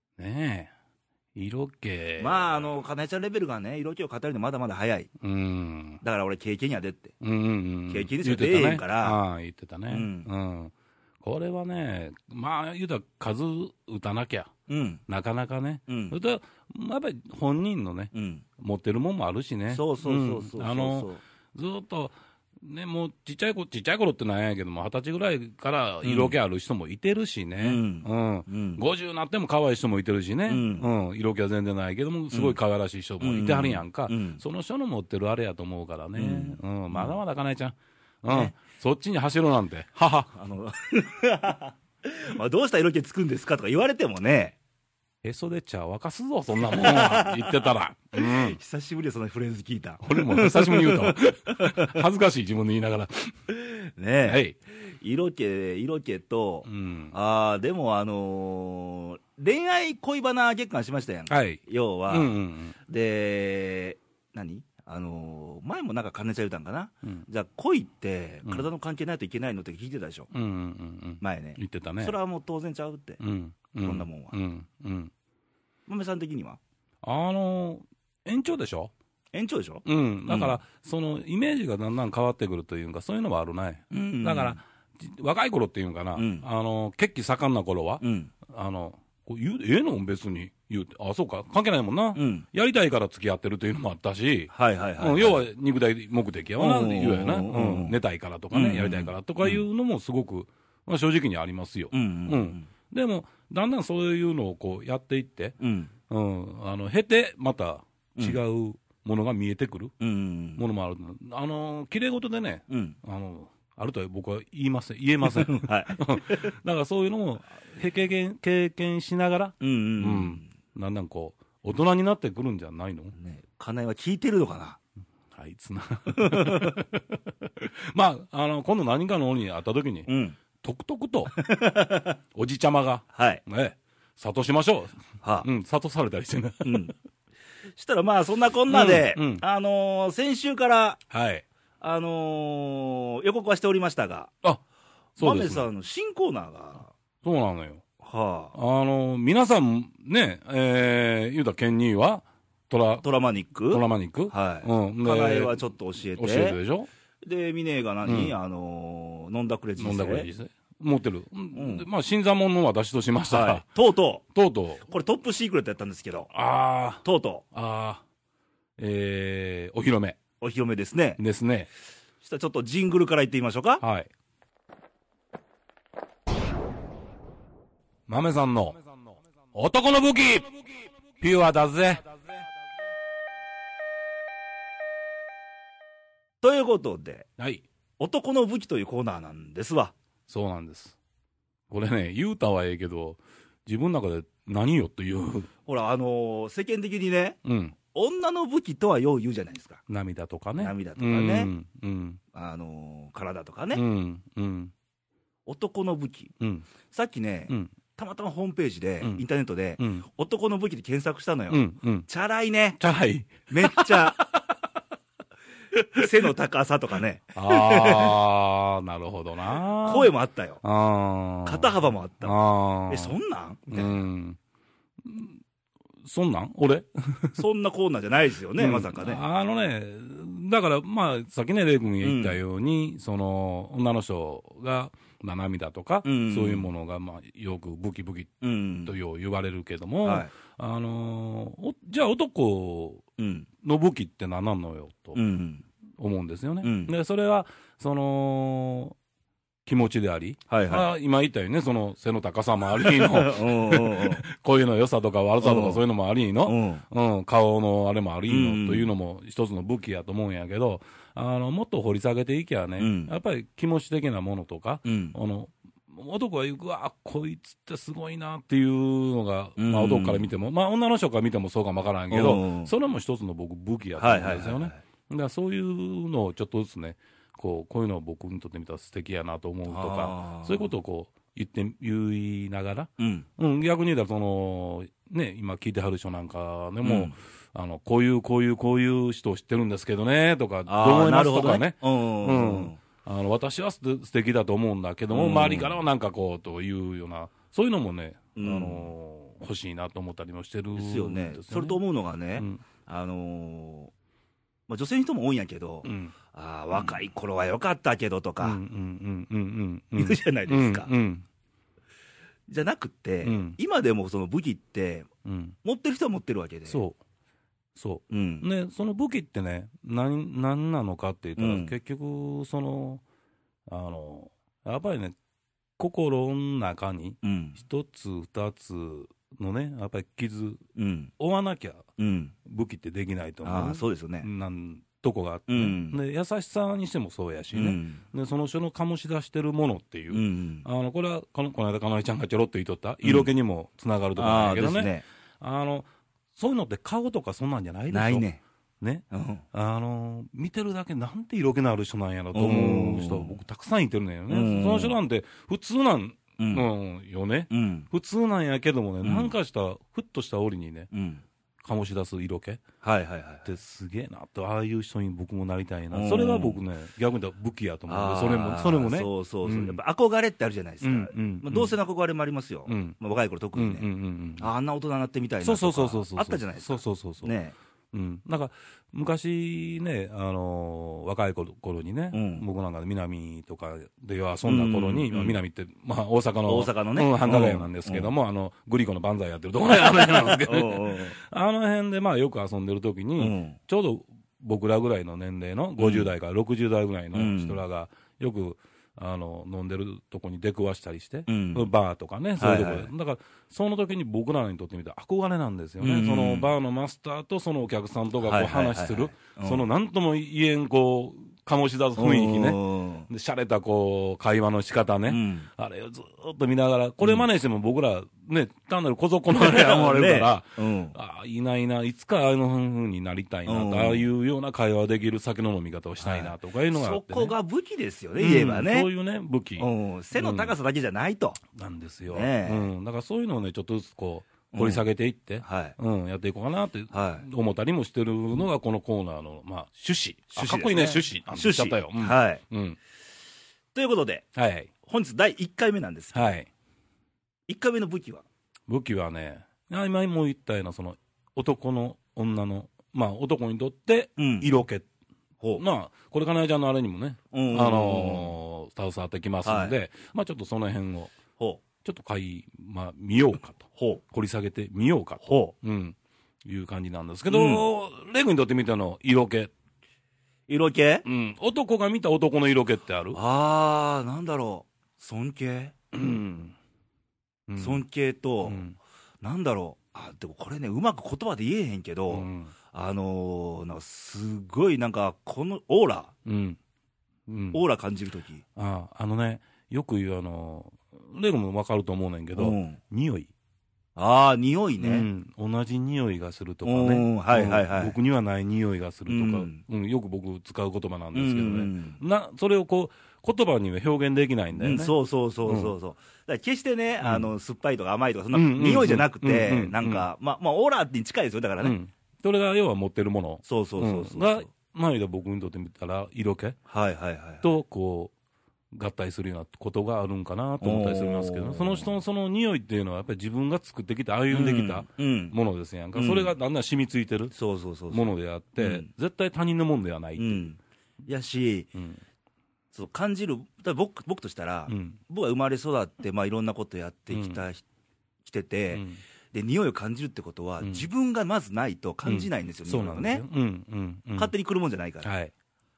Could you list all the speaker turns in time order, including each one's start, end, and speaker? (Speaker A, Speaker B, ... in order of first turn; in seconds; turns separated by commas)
Speaker A: 0.2-0.7, Speaker A: 1.3-2.7, Speaker B: 2.2-5.1, Speaker A: 5.2-6.0, Speaker B: 6.0-7.1, Speaker A: 7.2-14.5, Speaker B: 7.9-9.2, Speaker B: 9.9-10.3, Speaker B: 14.7-15.0, Speaker A: 15.1-40.3, Speaker B: 15.9-16.1, Speaker B: 18.1-18.4, Speaker B: 19.7-21.2, Speaker B: 26.0-26.3, Speaker B: 27.6-28.8, Speaker B: 30.5-30.9, Speaker B: 32.3-32.6, Speaker B: 33.2-34.4, Speaker B: 36.1-37.2, Speaker B: 38.3-38.5, Speaker B: 40.3-44.6, Speaker A: 45.2-48.6, Speaker B: 46.6-47.6, Speaker B: 48.1-52.0, Speaker A: 50.0-53.4, Speaker B: 53.5-54.4, Speaker A: 54.2-54.6, Speaker B: 55.0-62.3, Speaker A: 56.6-57.1, Speaker A: 61.3-62.7, Speaker B: 62.9-70.3, Speaker A: 70.3-72.1, Speaker B: 71.2-73.2, Speaker A: 73.2-75.1, Speaker B: 73.8-74.3, Speaker B: 75.9-76.6, Speaker A: 77.0-78.9, Speaker B: 79.3-80.6, Speaker A: 79.8-105.5, Speaker B: 83.9-84.6, Speaker B: 86.2-86.4, Speaker B: 88.0-88.3, Speaker B: 92.1-92.5, Speaker B: 94.5-95.4, Speaker B: 96.6-98.0, Speaker B: 98.5-99.6, Speaker B: 101.9-102.7, Speaker B: 105.6-105.9, Speaker A: 106.1-109.9, Speaker B: 110.0-110.6, Speaker A: 110.6-123.1, Speaker B: 112.7-113.0, Speaker B: 115.2-116.5, Speaker B: 119.6-120.5, Speaker B: 123.1-124.8, Speaker A: 125.3-131.3, Speaker B: 126.1-126.8, Speaker B: 130.1-130.3, Speaker B: 131.3-132.2, Speaker A: 132.3-136.9, Speaker B: 133.1-133.4, Speaker B: 135.2-135.5, Speaker B: 136.6-136.9, Speaker B: 137.8-141.0, Speaker A: 138.7-139.4, Speaker A: 141.1-141.4, Speaker B: 141.8-144.3, Speaker A: 145.2-145.7, Speaker B: 145.2-146.9, Speaker A: 147.2-147.8, Speaker B: 148.0-148.6, Speaker A: 148.5-153.0, Speaker B: 153.0-156.6, Speaker A: 153.7-155.6, Speaker A: 156.2-156.9, Speaker B: 157.2-160.3, Speaker A: 158.0-158.3, Speaker A: 159.8-163.6, Speaker B: 161.5-161.8, Speaker B: 163.3-164.2, Speaker A: 164.3-164.8, Speaker B: 164.8-166.3, Speaker A: 166.3-167.0, Speaker B: 167.0-167.4, Speaker A: 167.5-168.0, Speaker A: 168.8-170.2, Speaker B: 170.4-171.2, Speaker A: 171.2-171.7, Speaker B: 172.2-173.8, Speaker A: 173.8-174.1, Speaker A: 178.1-178.8, Speaker A: 179.5-182.2, Speaker B: 186.4-187.3, Speaker A: 187.4-187.6, Speaker B: 188.0-189.9, Speaker A: 190.3-190.9, Speaker A: 191.7-195.5, Speaker B: 195.7-197.4, Speaker A: 197.4-197.8, Speaker B: 197.9-199.8, Speaker A: 199.9-202.2, Speaker B: 200.6-201.5, Speaker B: 202.3-203.8, Speaker A: 203.7-204.7, Speaker B: 205.4-206.3, Speaker A: 206.4-206.7, Speaker B: 206.9-212.8, Speaker A: 209.8-210.0, Speaker A: 211.5-212.1, Speaker A: 212.8-214.4, Speaker B: 213.5-214.3, Speaker A: 215.7-216.1, Speaker B: 215.9-218.2, Speaker A: 217.3-220.1, Speaker B: 219.8-220.6, Speaker A: 220.6-223.2, Speaker B: 221.4-222.4, Speaker B: 222.9-224.0, Speaker A: 223.7-224.4, Speaker A: 225.0-225.4, Speaker A: 226.0-227.4, Speaker B: 227.3-229.2, Speaker A: 228.6-243.0, Speaker B: 232.0-232.4, Speaker B: 236.0-236.7, Speaker B: 238.4-238.9, Speaker B: 240.0-240.3, Speaker B: 243.2-243.5, Speaker A: 243.6-245.2, Speaker B: 245.1-245.7, Speaker A: 246.0-248.9, Speaker B: 246.6-246.9, Speaker A: 249.7-301.8, Speaker B: 250.5-250.9, Speaker B: 252.8-254.2, Speaker B: 255.4-255.8, Speaker B: 256.4-256.8, Speaker B: 258.3-258.9, Speaker B: 262.8-263.1, Speaker B: 264.8-265.1, Speaker B: 269.6-270.3, Speaker B: 272.1-272.7, Speaker B: 274.0-274.8, Speaker B: 279.7-280.7, Speaker B: 283.0-283.2, Speaker B: 286.8-287.1, Speaker B: 290.7-292.8, Speaker B: 295.1-295.8, Speaker B: 298.4-298.9, Speaker B: 300.8-303.9, Speaker B: 304.7-308.6, Speaker A: 305.8-306.1, Speaker A: 308.4-311.2, Speaker B: 310.0-310.9, Speaker B: 312.5-315.1, Speaker A: 313.2-313.6, Speaker A: 315.2-315.5, Speaker B: 315.6-316.8, Speaker A: 316.7-317.0, Speaker A: 317.7-323.0, Speaker B: 318.1-318.5, Speaker B: 321.4-321.7, Speaker A: 323.7-325.1, Speaker A: 325.8-330.6, Speaker B: 327.2-327.6, Speaker B: 330.8-331.1, Speaker A: 331.2-331.8, Speaker B: 332.0-332.3, Speaker A: 332.4-348.2, Speaker B: 333.4-334.3, Speaker B: 335.5-336.0, Speaker B: 337.5-338.0, Speaker B: 340.1-340.6, Speaker B: 343.0-343.3, Speaker B: 344.1-345.0, Speaker B: 347.9-348.4, Speaker A: 348.8-360.9, Speaker B: 349.1-349.4, Speaker B: 352.3-353.4, Speaker B: 354.3-355.0, Speaker B: 356.4-356.7, Speaker B: 357.5-357.9, Speaker B: 359.0-359.3, Speaker B: 360.9-361.2, Speaker A: 361.6-362.6, Speaker B: 362.8-363.5, Speaker A: 363.4-369.8, Speaker B: 365.9-366.6, Speaker B: 367.9-377.5, Speaker A: 370.8-371.7, Speaker A: 372.7-372.9, Speaker A: 373.5-374.5, Speaker A: 375.4-377.3, Speaker A: 377.9-427.3, Speaker B: 382.1-382.4, Speaker B: 384.4-385.4, Speaker B: 386.5-388.1, Speaker B: 389.9-391.1, Speaker B: 393.2-393.6, Speaker B: 395.8-396.1, Speaker B: 397.1-397.6, Speaker B: 401.3-401.7, Speaker B: 402.4-402.9, Speaker B: 405.8-406.5, Speaker B: 408.2-409.6, Speaker B: 412.0-413.1, Speaker B: 415.1-415.5, Speaker B: 419.3-420.9, Speaker B: 423.4-424.1, Speaker B: 426.0-428.9, Speaker A: 428.2-430.5, Speaker B: 429.6-431.4, Speaker A: 431.5-442.8, Speaker B: 432.1-432.7, Speaker B: 434.5-434.8, Speaker B: 435.4-435.8, Speaker B: 436.9-437.2, Speaker B: 440.3-442.4, Speaker B: 443.7-444.2, Speaker A: 444.3-444.7, Speaker B: 444.8-446.3, Speaker A: 446.1-446.5, Speaker B: 447.5-448.2, Speaker A: 448.7-454.9, Speaker B: 454.2-454.5, Speaker A: 455.6-461.1, Speaker B: 457.3-458.3, Speaker B: 459.4-459.7, Speaker A: 461.8-469.5, Speaker B: 463.8-464.0, Speaker B: 465.2-465.5, Speaker B: 467.3-467.6, Speaker B: 470.5-471.0, Speaker A: 471.0-473.2, Speaker B: 473.1-475.7, Speaker A: 475.9-476.5, Speaker A: 477.5-477.8, Speaker B: 477.6-478.6, Speaker A: 478.4-478.8, Speaker B: 479.2-486.1, Speaker A: 482.1-482.5, Speaker A: 486.2-486.6, Speaker A: 487.3-487.6, Speaker B: 487.5-488.4, Speaker A: 488.6-493.3, Speaker B: 492.4-492.8, Speaker B: 493.9-495.1, Speaker A: 494.8-505.7, Speaker B: 496.6-498.0, Speaker B: 499.1-499.6, Speaker B: 501.1-502.0, Speaker B: 504.5-511.8, Speaker A: 507.0-507.3, Speaker A: 508.3-510.1, Speaker A: 511.6-516.6, Speaker B: 513.4-514.5, Speaker B: 516.7-517.5, Speaker A: 517.4-518.1, Speaker A: 518.7-527.3, Speaker B: 520.6-521.9, Speaker B: 524.3-525.4, Speaker B: 525.9-526.3, Speaker B: 527.3-528.1, Speaker A: 527.9-530.5, Speaker B: 528.6-528.9, Speaker B: 530.2-531.7, Speaker A: 531.7-532.0, Speaker B: 532.7-537.6, Speaker A: 534.7-535.0, Speaker A: 537.1-537.4, Speaker B: 538.2-543.2, Speaker A: 538.7-539.0, Speaker A: 540.6-540.9, Speaker A: 542.0-544.3, Speaker B: 544.1-545.1, Speaker A: 545.0-545.3